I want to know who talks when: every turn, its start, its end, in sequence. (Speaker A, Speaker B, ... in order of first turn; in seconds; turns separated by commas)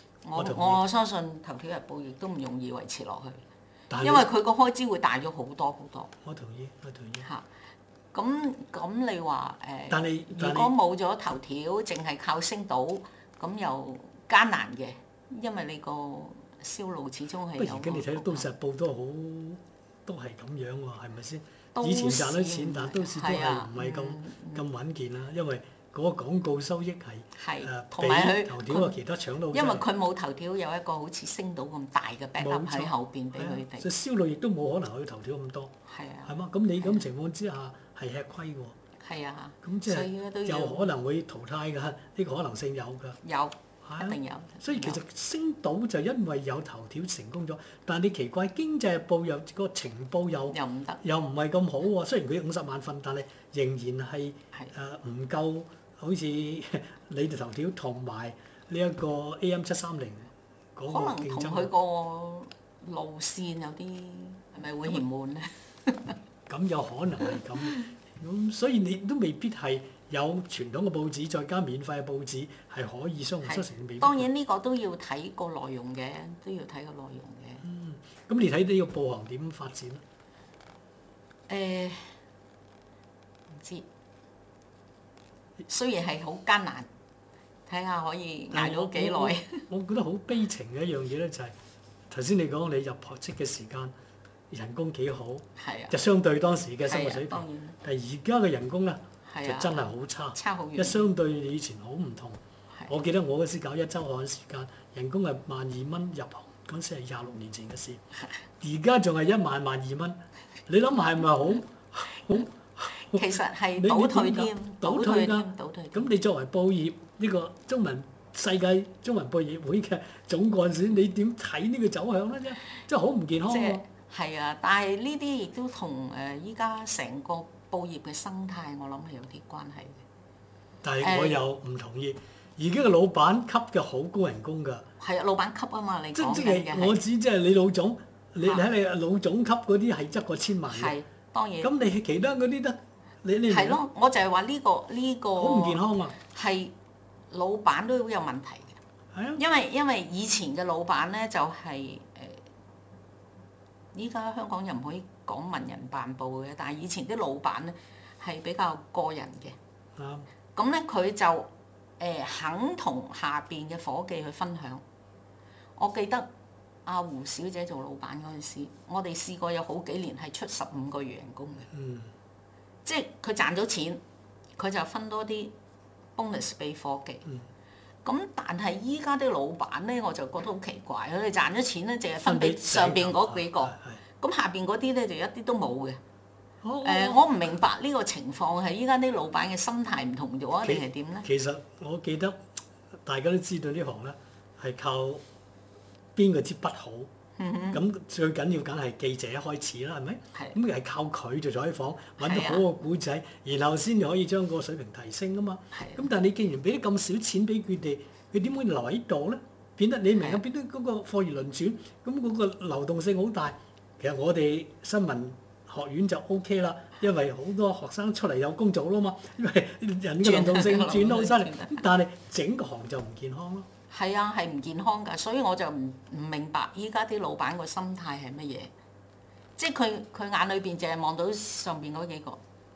Speaker A: 0.2-3.4, Speaker B: 0.3-0.8, Speaker B: 3.9-4.3, Speaker A: 4.0-6.1, Speaker B: 6.2-7.3, Speaker A: 8.1-18.5, Speaker B: 9.9-10.7, Speaker B: 17.6-29.9, Speaker A: 21.7-24.6, Speaker A: 27.4-29.0, Speaker A: 29.5-33.9, Speaker B: 32.4-35.7, Speaker A: 35.9-37.0, Speaker B: 36.3-38.8, Speaker A: 39.0-40.9, Speaker B: 39.6-43.2, Speaker A: 43.2-45.0, Speaker B: 43.9-61.7, Speaker A: 50.5-51.0, Speaker A: 60.9-66.2, Speaker B: 66.5-74.3, Speaker A: 73.5-77.6, Speaker B: 77.6-80.0, Speaker A: 81.5-82.1, Speaker A: 83.5-83.9, Speaker A: 85.7-86.9, Speaker A: 87.7-89.7, Speaker B: 88.5-91.5, Speaker B: 92.1-93.9, Speaker B: 94.5-108.0, Speaker A: 95.6-95.9, Speaker A: 96.8-97.8, Speaker A: 99.3-101.0, Speaker B: 108.6-113.2, Speaker A: 113.0-116.1, Speaker B: 113.8-123.8, Speaker A: 123.5-130.0, Speaker B: 130.8-134.8, Speaker A: 131.0-131.4, Speaker A: 135.0-137.0, Speaker B: 136.2-141.0, Speaker A: 140.7-141.7, Speaker B: 141.6-143.8, Speaker A: 143.5-146.7, Speaker B: 145.4-146.2, Speaker A: 147.3-148.8, Speaker B: 149.1-149.4, Speaker A: 149.4-152.4, Speaker A: 153.9-159.6, Speaker B: 160.0-160.3, Speaker A: 160.6-164.8, Speaker A: 165.8-166.3, Speaker A: 166.8-171.7, Speaker B: 171.7-172.1, Speaker A: 172.8-174.0, Speaker A: 174.6-175.5, Speaker A: 176.2-177.2, Speaker A: 178.1-186.0, Speaker B: 182.2-184.0, Speaker B: 186.6-187.3, Speaker A: 186.8-191.3, Speaker B: 190.6-192.4, Speaker B: 193.1-195.2, Speaker B: 196.2-197.1, Speaker A: 197.4-197.8, Speaker B: 197.7-223.7, Speaker A: 202.2-202.7, Speaker A: 205.7-206.1, Speaker A: 210.2-210.4, Speaker A: 220.2-221.8, Speaker A: 223.9-228.7, Speaker A: 229.6-232.4